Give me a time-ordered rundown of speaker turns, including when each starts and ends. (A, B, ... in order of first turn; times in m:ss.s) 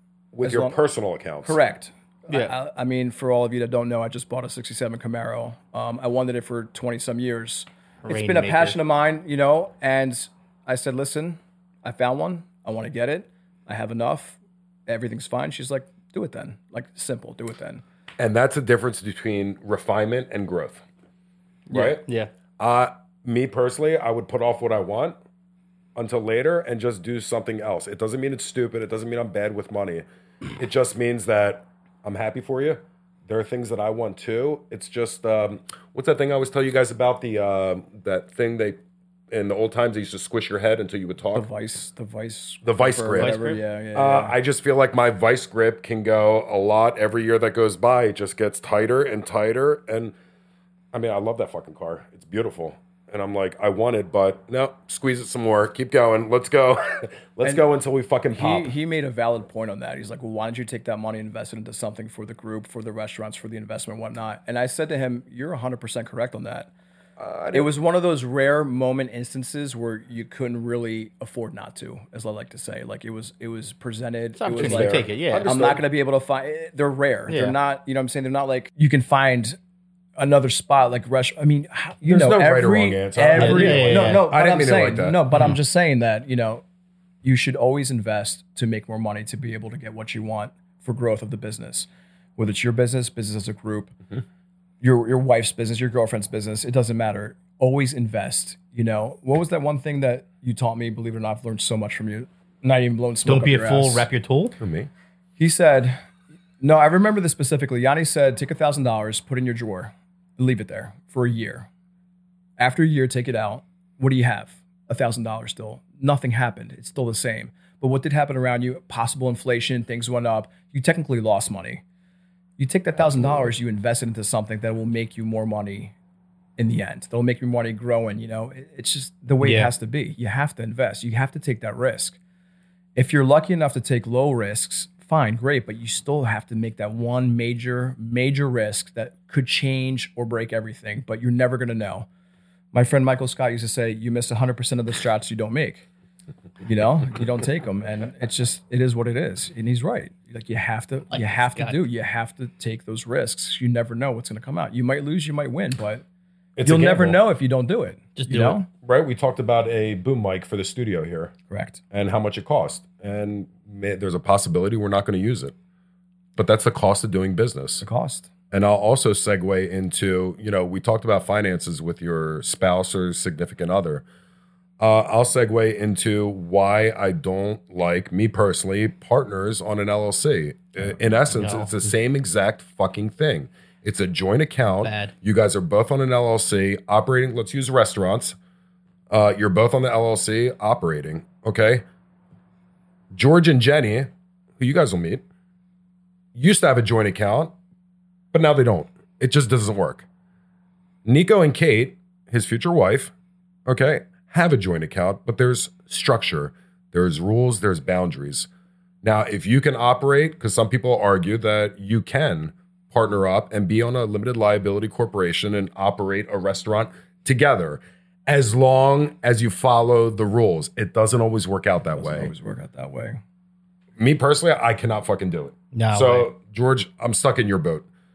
0:00.3-0:01.6 A
0:00.4-0:00.8 B
0:01.4-0:17.8 B
0:02.3-0:02.6 C
0:08.0-0:08.8 C
0:18.2-0:20.8 A
0:21.7-0:22.0 B
0:21.7-0:22.0 A
0:22.0-0:22.3 C
0:22.6-0:25.2 A
0:26.0-0:38.8 A
0:39.3-0:41.5 A
0:41.3-0:44.4 B
0:42.6-0:43.4 A
0:43.2-0:43.6 C
0:43.9-0:50.2 A
0:50.9-0:58.7 A
0:58.4-1:06.7 B
1:07.2-1:07.7 A
1:07.5-1:19.6 B
1:14.4-1:15.5 C
1:14.6-1:15.8 A
1:17.3-1:17.6 C
1:20.2-1:26.6 B
1:22.0-1:25.2 A
1:23.3-1:24.3 C
1:27.2-1:34.0 B
1:34.8-1:44.1 B
1:43.2-1:44.6 C
1:44.6-1:44.9 A
1:45.4-1:46.0 B
1:46.6-1:51.7 B
1:52.6-2:01.8 B
2:02.6-2:05.9 B
2:03.2-2:03.5 A
2:06.6-2:12.2 B
2:09.4-2:09.7 C
2:13.0-2:22.1 B
2:22.7-2:25.9 B
2:26.6-2:36.0 B
2:31.1-2:31.8 C
2:36.6-2:37.2 A
2:36.6-2:38.7 B
2:38.2-2:38.6 C
2:38.8-2:41.3 A
2:41.5-2:41.8 B
2:41.9-2:45.5 A
2:46.4-2:47.8 A
2:47.8-2:48.3 B
2:48.5-2:54.0 A
2:54.8-3:08.4 A
3:01.3-3:01.9 C
3:04.8-3:05.1 C
3:09.1-3:11.8 A
3:13.1-3:15.2 A
3:16.4-3:17.5 A
3:18.3-3:20.1 A
3:21.0-3:23.1 A
3:23.7-3:28.5 A
3:29.0-3:42.3 A
3:41.9-3:43.2 B
3:44.0-3:47.9 A
3:45.7-3:46.3 C